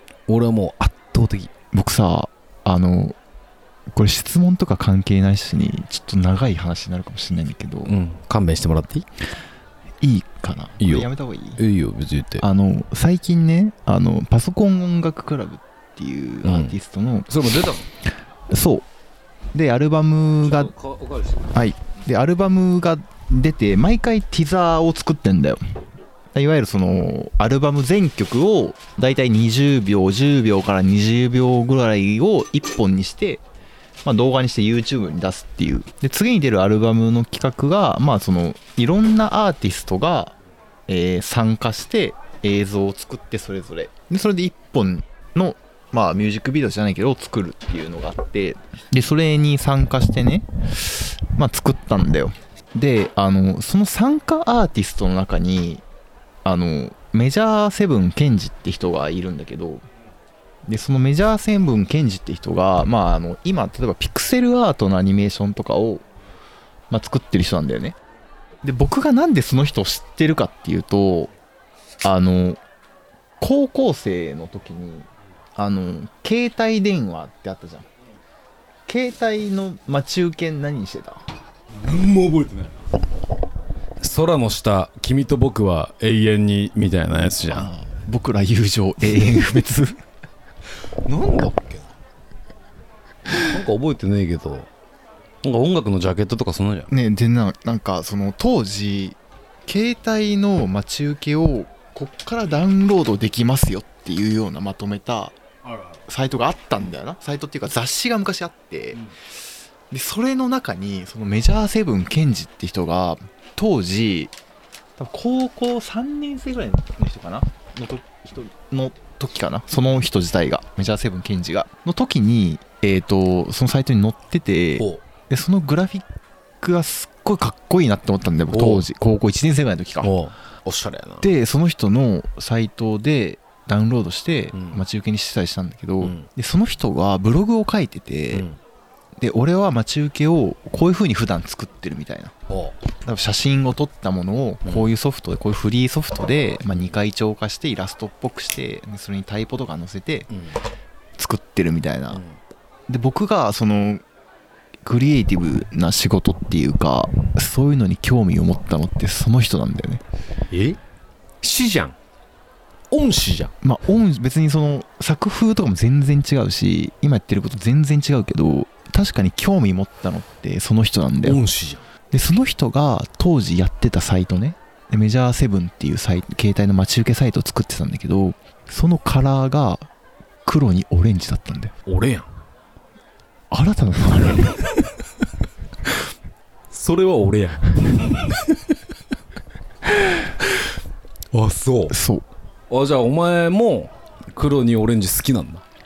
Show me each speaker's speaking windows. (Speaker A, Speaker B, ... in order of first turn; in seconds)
Speaker A: 0.3-1.5, 7.9-9.1, 10.8-12.4, 16.4-16.8, 17.3-17.9, 20.4-21.6, 81.7-82.8, 84.0-87.7, 91.0-91.9, 93.4-94.7, 95.4-96.9, 124.8-125.0, 128.5-128.9, 130.0-131.3, 134.5-134.8, 136.0-136.3, 138.3-138.6, 142.5-142.8, 150.3-150.6, 152.1-152.4, 160.5-160.8, 161.4-161.9, 162.9-163.5, 171.2-171.8, 181.9-182.3, 186.7-188.6, 191.3-192.0, 192.7-195.6
Speaker B: 1.7-3.2, 3.9-7.9, 10.0-11.6, 12.4-17.3, 18.5-18.9, 19.5-20.7, 21.5-25.6, 26.3-33.4, 34.0-40.4, 40.9-55.8, 56.5-59.8, 60.7-66.0, 66.9-68.0, 68.6-71.3, 72.0-72.6, 73.4-77.9, 78.9-81.2, 87.5-90.0, 96.9-105.4, 106.1-109.0, 109.9-114.3, 115.0-126.1, 126.6-130.1, 131.2-138.5, 139.2-142.3, 143.0-150.3, 151.2-152.2, 152.9-154.0, 154.8-160.0, 163.6-171.4, 172.1-179.9, 180.4-181.7, 183.5-184.6, 191.9-192.3